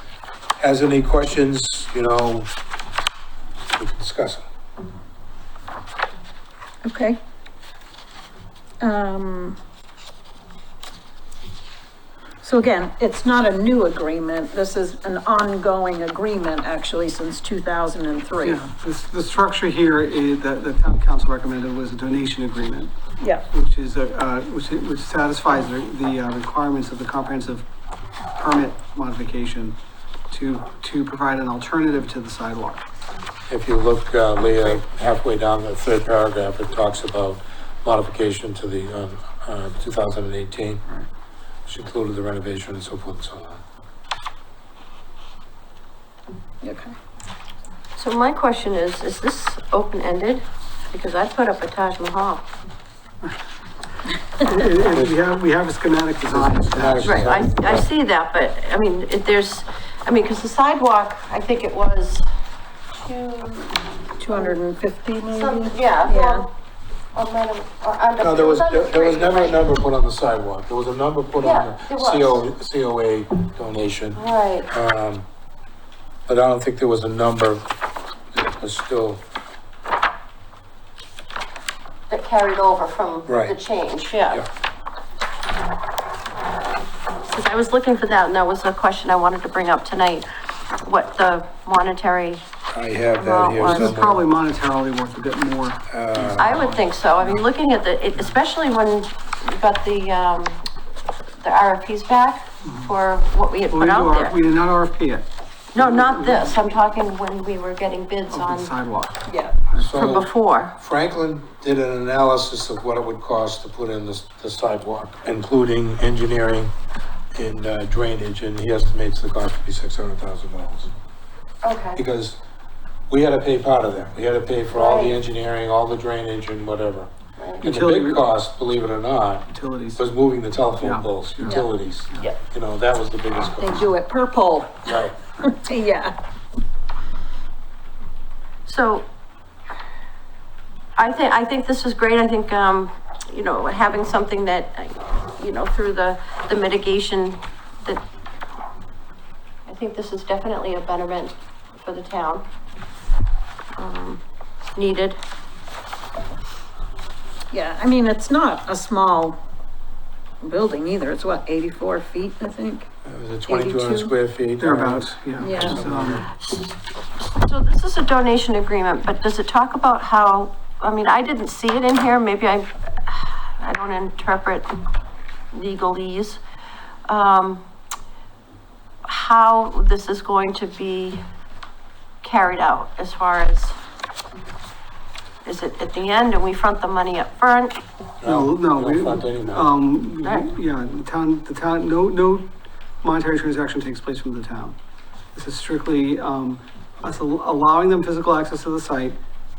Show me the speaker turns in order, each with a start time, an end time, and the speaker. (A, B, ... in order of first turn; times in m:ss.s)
0:00.6-0:02.5 A
0:03.7-0:04.4 A
0:06.8-0:07.2 B
0:08.8-0:09.6 B
0:12.4-0:18.6 B
0:18.4-0:22.9 C
0:23.5-0:27.7 C
0:28.4-0:29.8 C
0:30.3-0:32.8 C
0:33.5-0:40.8 A
0:41.7-0:43.6 A
0:46.6-0:46.9 B
0:48.0-0:52.4 D
0:54.4-0:57.4 C
0:54.9-0:55.2 A
0:56.3-0:57.9 A
0:57.0-1:02.3 D
1:02.9-1:04.6 D
1:04.2-1:06.4 B
1:05.3-1:06.5 D
1:07.1-1:09.6 D
1:08.2-1:15.2 A
1:11.4-1:12.4 D
1:14.2-1:14.7 D
1:16.3-1:17.7 A
1:18.3-1:19.2 A
1:22.1-1:24.4 D
1:23.2-1:23.6 A
1:27.3-1:30.2 D
1:30.8-1:32.4 D
1:32.7-1:34.2 A
1:33.2-1:33.9 D
1:33.6-1:36.7 C
1:35.9-1:36.8 A
1:36.4-1:40.6 D
1:41.4-1:44.3 D
1:42.6-1:42.9 C
1:43.7-1:46.5 C
1:45.7-1:48.7 D
1:48.3-1:49.9 C
1:49.3-1:49.6 B
1:49.8-1:56.7 A
1:49.9-1:50.7 D
1:57.3-2:00.9 A
2:01.6-2:02.0 D
2:01.9-2:02.4 A
2:03.1-2:07.1 A
2:04.7-2:05.2 D
2:07.4-2:07.6 D
2:07.6-2:08.3 C
2:07.6-2:13.9 A
2:09.5-2:10.1 C
2:10.8-2:12.2 C
2:13.6-2:16.2 B
2:14.8-2:15.2 A
2:18.7-2:19.0 D
2:21.0-2:28.0 D
2:29.7-2:32.5 D
2:33.8-2:34.2 D
2:34.8-2:35.2 D
2:37.5-2:39.4 B
2:40.4-2:42.9 B
2:43.0-2:46.3 A
2:43.5-2:44.1 B
2:44.6-2:46.2 C
2:45.4-2:45.8 B
2:46.3-2:54.7 D
2:55.5-2:56.4 D
2:57.1-2:57.6 D
2:59.0-3:01.2 D
3:02.2-3:03.8 D
3:05.4-3:07.8 D
3:08.2-3:09.7 A
3:08.2-3:14.8 C
3:15.3-3:19.2 C